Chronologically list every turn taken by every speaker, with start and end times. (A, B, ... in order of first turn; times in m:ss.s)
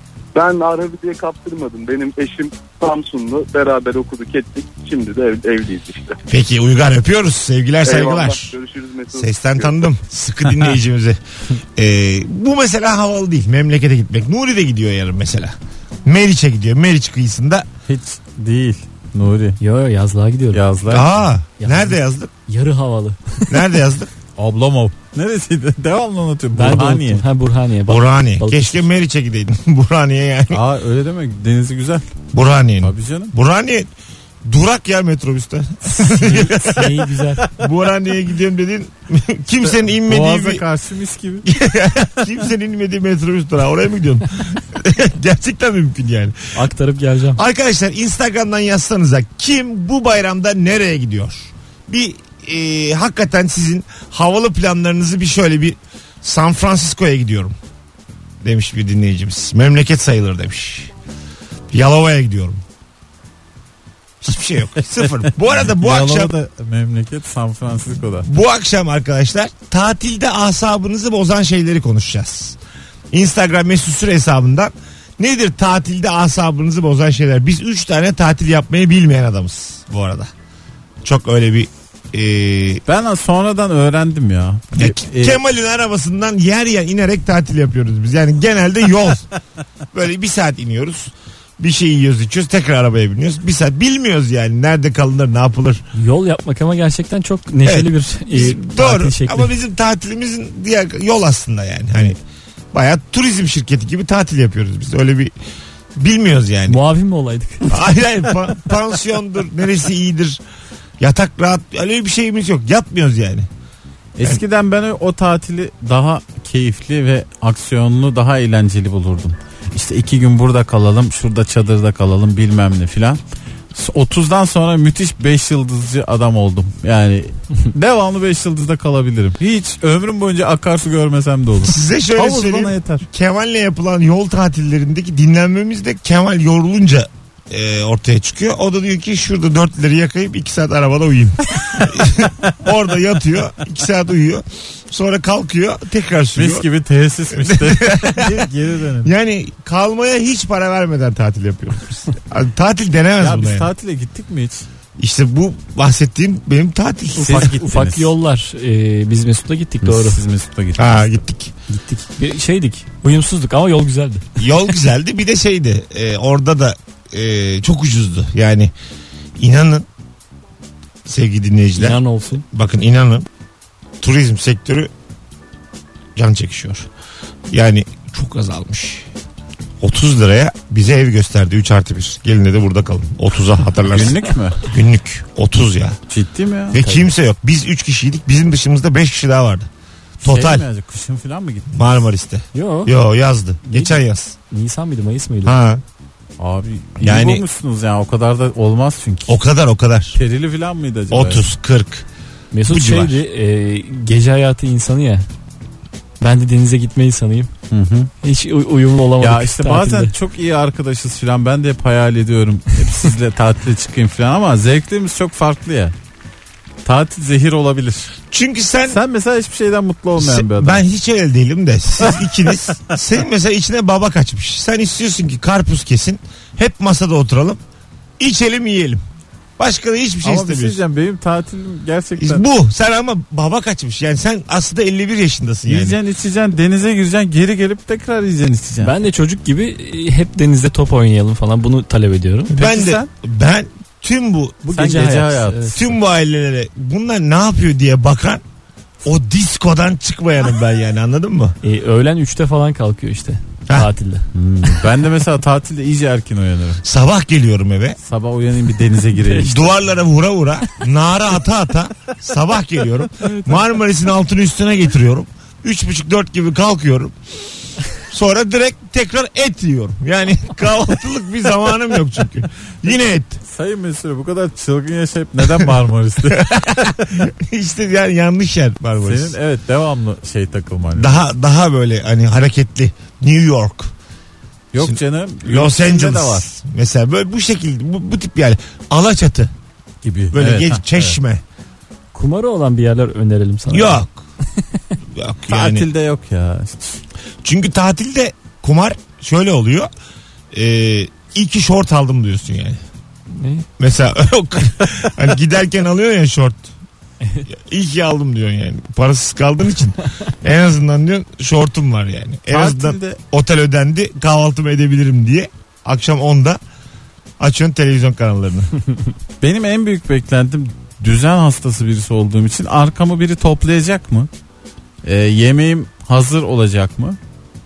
0:00.3-0:06.2 A
0:06.3-0:08.5 B
0:07.8-0:09.8 A
0:09.1-0:17.7 B
0:17.9-0:19.6 C
0:19.6-0:20.6 D
0:20.5-0:21.1 C
0:20.9-0:22.3 B
0:21.6-0:21.9 D
0:22.5-0:23.6 D
0:23.5-0:24.1 B
0:24.4-0:27.2 C
0:26.5-0:28.8 D
0:27.9-0:30.6 B
0:30.5-0:32.0 C
0:32.3-0:33.9 B
0:32.8-0:33.3 C
0:34.4-0:40.6 B
0:35.8-0:37.5 D
0:39.6-0:41.5 C
0:41.4-0:46.5 B
0:46.5-0:47.4 D
0:47.3-0:57.5 B
0:58.4-1:00.9 B
1:01.7-1:02.6 B
1:04.2-1:06.3 B
1:05.2-1:08.3 C
1:08.2-1:12.6 B
1:13.1-1:20.3 B
1:21.0-1:22.8 B
1:22.8-1:25.4 C
1:24.7-1:29.3 B
1:29.9-1:35.8 B
1:35.9-1:39.5 D
1:37.6-1:42.2 B
1:42.7-1:45.3 B
1:46.0-1:46.8 B
1:46.7-1:47.7 D
1:47.7-1:50.4 B
1:51.0-1:53.5 B
1:54.2-2:03.2 C
2:03.7-2:13.0 C
2:11.7-2:26.7 B
2:26.4-2:29.1 C
2:27.3-2:28.5 B
2:29.0-2:33.7 B
2:33.2-2:34.7 C
2:35.0-2:37.4 B
2:37.1-2:40.2 D
2:37.2-2:38.1 C
2:39.8-2:41.1 C
2:40.8-2:41.5 B
2:41.7-2:44.3 D
2:44.4-2:48.7 B
2:49.4-2:49.9 B
2:51.0-2:53.3 B
2:51.8-2:52.4 D
2:54.0-2:54.9 B
2:56.2-2:56.9 B
2:57.5-2:59.1 B
2:59.8-3:06.0 B
3:03.9-3:04.6 C
3:06.1-3:06.8 C
3:06.7-3:09.7 B
3:06.8-3:07.1 D
3:10.2-3:11.9 C
3:10.2-3:10.6 B
3:11.7-3:14.3 B
3:12.5-3:13.0 D
3:13.6-3:14.0 D
3:14.5-3:15.5 D
3:15.4-3:15.8 B
3:16.4-3:19.4 C
3:17.0-3:17.4 B
3:19.3-3:20.2 B
3:20.1-3:21.4 C
3:21.1-3:22.0 B
3:22.5-3:25.2 D
3:22.7-3:23.2 B
3:26.2-3:27.5 D
3:27.7-3:28.1 C
3:28.2-3:30.1 D
3:29.2-3:35.9 C
3:36.8-3:38.1 C
3:38.3-3:39.0 B
3:38.9-3:40.8 C
3:40.2-3:47.6 B
3:48.2-3:49.0 B
3:49.6-3:50.8 B
3:50.2-3:52.4 C
3:52.2-3:56.0 B
3:55.6-3:58.9 C
3:58.8-4:02.5 D
4:02.5-4:04.6 B
4:02.6-4:03.1 C
4:04.6-4:05.8 D
4:04.7-4:05.9 C
4:05.7-4:08.4 B
4:09.0-4:11.6 B
4:11.6-4:14.2 D
4:14.3-4:16.8 C
4:16.8-4:18.0 B
4:18.0-4:19.8 C
4:19.2-4:19.5 D
4:19.4-4:27.2 B
4:27.9-4:33.4 B
4:33.5-4:37.1 C
4:36.3-4:39.4 B
4:39.0-4:41.2 C
4:40.9-4:43.9 B
4:44.7-4:46.5 C
4:44.8-4:49.5 B
4:50.0-4:51.2 C
4:50.3-4:51.4 B
4:52.1-4:54.0 D
4:53.7-4:54.2 B
4:55.1-4:55.9 B
4:55.5-4:57.0 C
4:57.4-4:59.9 B
5:00.5-5:02.8 B
5:03.3-5:03.7 D
5:03.8-5:06.7 B
5:07.2-5:07.5 D
5:07.5-5:16.6 B
5:12.5-5:13.2 C
5:17.4-5:18.7 B
5:19.4-5:24.3 C
5:25.0-5:27.2 C